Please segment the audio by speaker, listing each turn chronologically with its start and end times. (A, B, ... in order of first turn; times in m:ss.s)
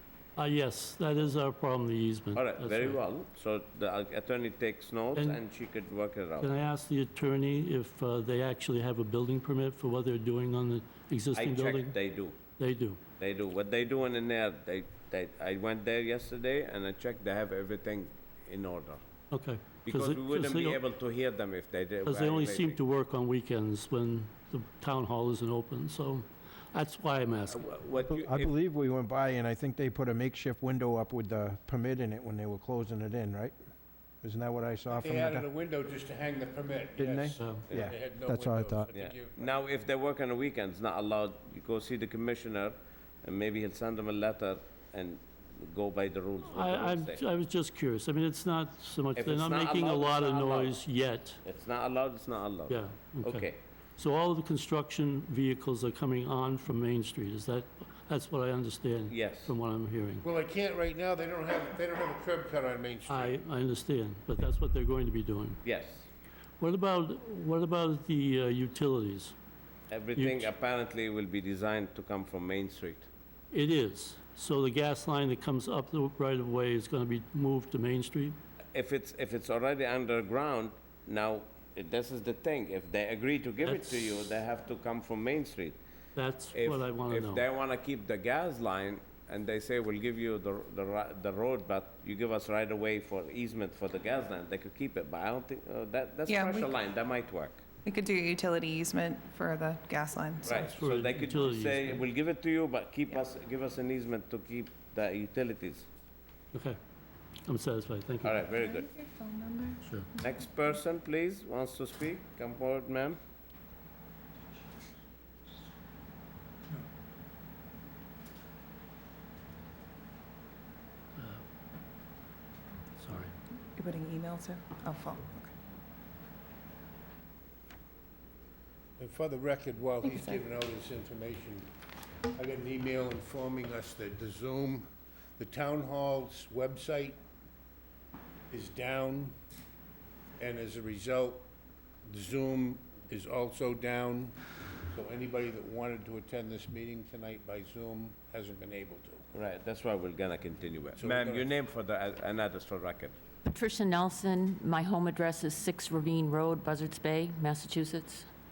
0:00.4-0:03.0 A
0:02.3-0:06.5 B
0:05.2-0:05.4 A
0:06.4-0:12.0 A
0:11.3-0:12.4 B
0:12.6-0:13.0 A
0:13.2-0:19.0 B
0:19.3-0:20.8 A
0:19.8-0:22.8 B
0:22.0-0:27.8 A
0:27.5-0:28.5 B
0:28.0-0:33.6 C
0:34.2-0:35.5 C
0:34.9-0:39.6 D
0:37.0-0:38.9 C
0:37.4-0:37.6 A
0:38.9-0:47.2 B
0:46.5-0:51.4 A
0:49.2-0:50.8 B
0:51.4-0:53.6 B
0:52.7-1:00.2 A
0:59.1-0:59.5 B
1:00.2-1:03.4 D
1:03.1-1:05.6 A
1:05.6-1:06.1 B
1:06.6-1:09.4 A
1:09.9-1:13.1 B
1:10.2-1:10.5 A
1:13.5-1:18.4 A
1:18.7-1:25.8 B
1:23.6-1:24.3 A
1:26.2-1:27.4 A
1:26.5-1:37.6 B
1:36.3-1:36.7 E
1:37.9-1:40.6 E
1:40.4-1:45.9 B
1:40.6-1:42.0 A
1:46.5-1:46.8 A
1:47.4-1:48.4 A
1:48.2-1:48.9 B
1:48.6-1:49.8 E
1:50.2-1:53.2 B
2:01.2-2:01.4 A
2:03.0-2:03.3 A
2:03.8-2:05.5 E
2:09.0-2:11.7 D
2:12.4-2:14.9 D
2:15.4-2:17.2 D
2:18.5-2:19.4 D
2:20.4-2:21.5 D
2:22.1-2:24.4 D
2:24.9-2:29.2 D
2:29.3-2:33.1 B
2:31.0-2:31.5 D
2:33.4-2:38.3 F